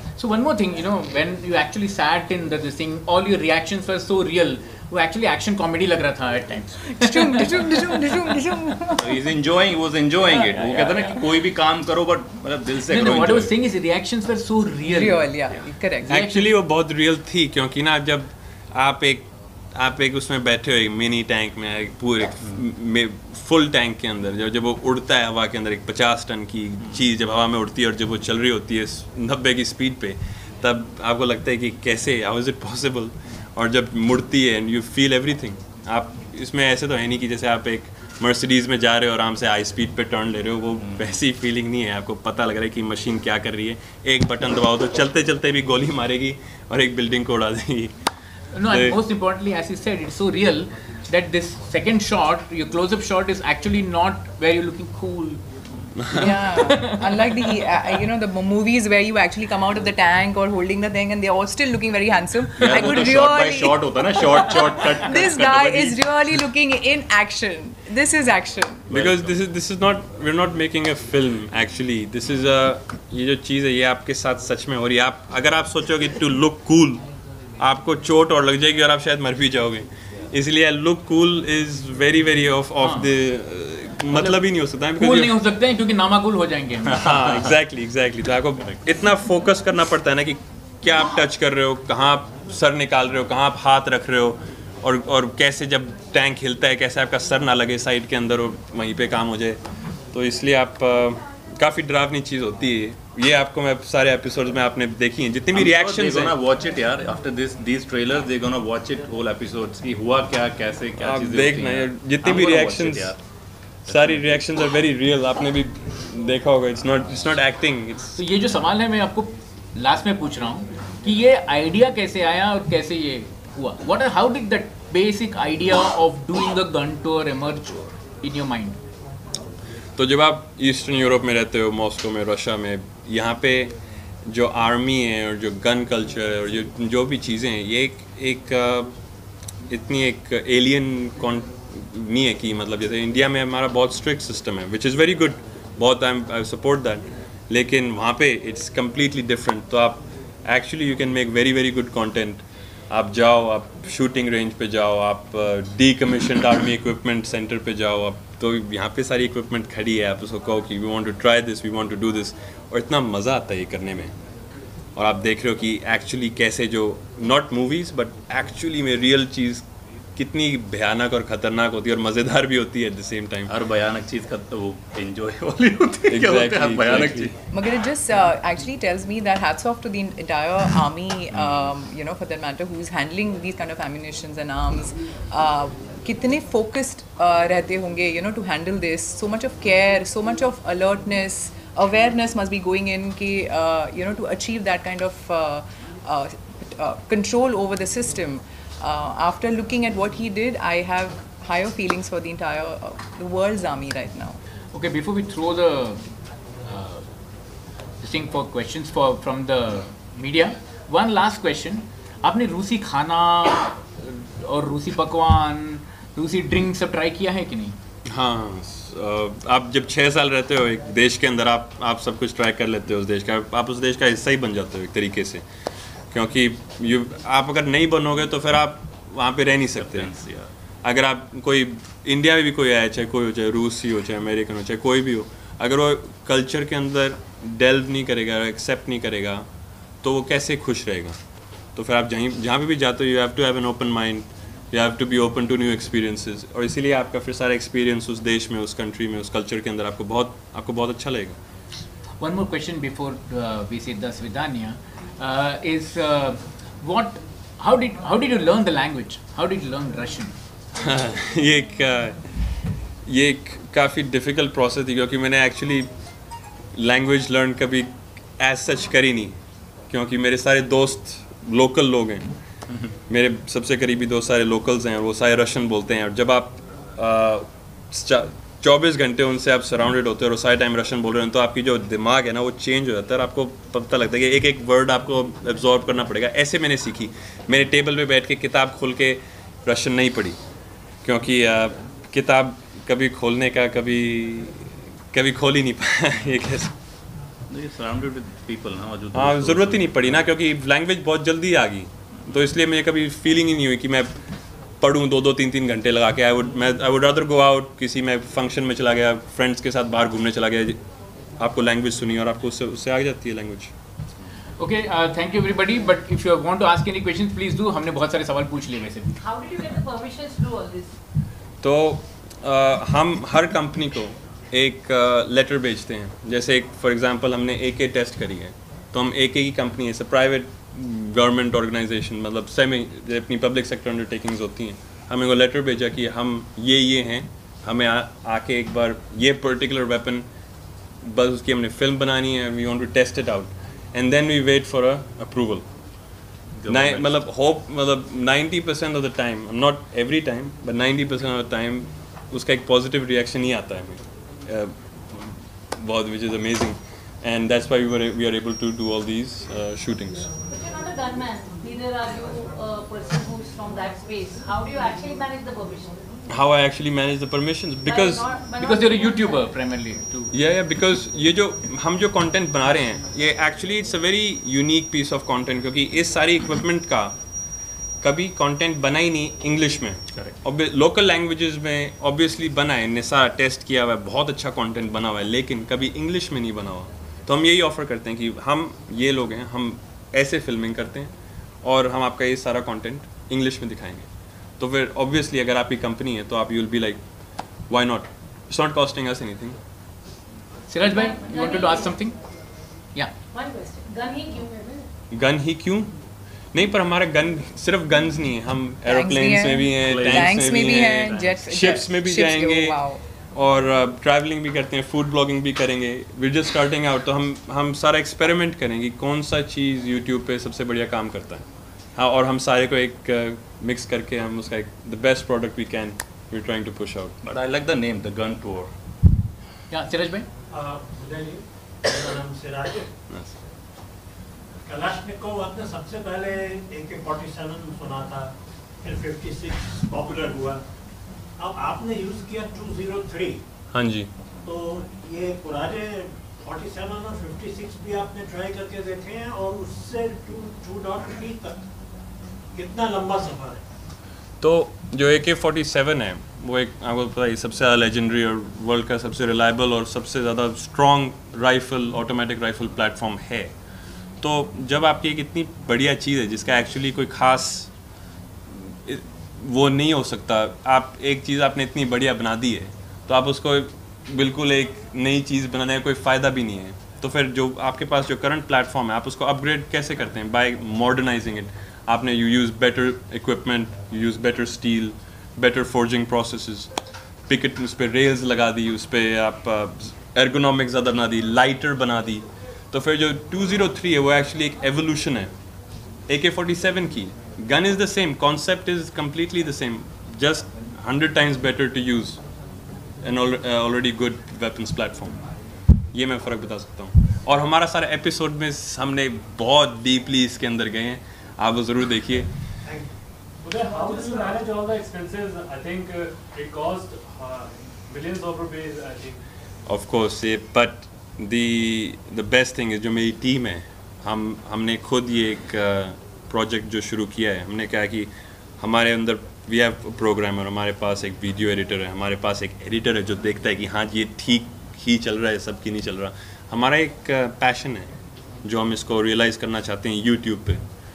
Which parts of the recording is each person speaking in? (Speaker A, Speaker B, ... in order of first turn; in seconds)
Speaker A: 0.2-8.0, 10.3-11.2, 12.8-15.2, 16.1-16.5, 48.5-55.4, 56.1-57.3, 82.8-83.1, 84.1-84.4, 84.9-87.0, 118.2-128.8, 204.7-206.0, 206.6-207.1, 208.0-217.8, 252.2-260.3, 314.6-319.2, 368.6-370.3, 400.7-402.1, 429.7-430.3
Speaker B: 6.8-9.2, 14.8-16.2, 56.1-68.8, 177.5-204.4, 408.8-413.0
Speaker C: 9.0-13.5, 40.8-41.1, 62.6-66.0, 68.9-69.4, 86.9-87.5, 105.5-113.2, 113.9-114.2, 173.5-177.3, 229.7-230.5, 297.5-300.2, 346.6-347.1, 409.8-411.3, 427.2-428.7
Speaker D: 16.1-47.9, 48.6-49.0, 56.0-56.3, 68.9-77.0, 77.6-85.4, 86.9-99.6, 100.1-106.4, 111.0-113.2, 113.9-118.2, 130.0-133.7, 134.3-138.9, 139.7-164.1, 164.9-169.6, 170.2-173.5, 176.1-177.3, 218.1-225.4, 226.1-230.1, 230.8-239.4, 240.0-241.2, 241.8-251.3, 260.8-262.2, 263.1-265.9, 266.7-269.3, 269.9-272.3, 273.1-290.4, 291.0-296.7, 299.1-304.1, 304.8-310.8, 311.4-313.7, 321.6-340.2, 341.0-345.6, 346.7-360.3, 366.3-368.2, 370.3-377.1, 378.0-391.1, 391.6-394.1, 394.6-397.0, 397.7-399.6, 405.1-405.9, 406.5-412.8, 413.3-421.4, 421.9-427.1, 443.7-444.1, 454.4-463.5, 464.2-467.7, 468.5-486.7, 487.3-495.3, 496.1-502.2, 503.0-505.1, 505.9-512.3, 519.7-537.9, 538.4-540.6
Speaker E: 319.2-320.9, 360.5-365.9, 367.8-369.4, 400.9-402.0, 403.3-404.8
Speaker F: 430.5-432.9, 434.6-438.3, 438.8-440.6, 441.4-443.4, 444.4-451.6, 452.5-453.6, 513.5-514.5
Speaker G: 513.4-519.2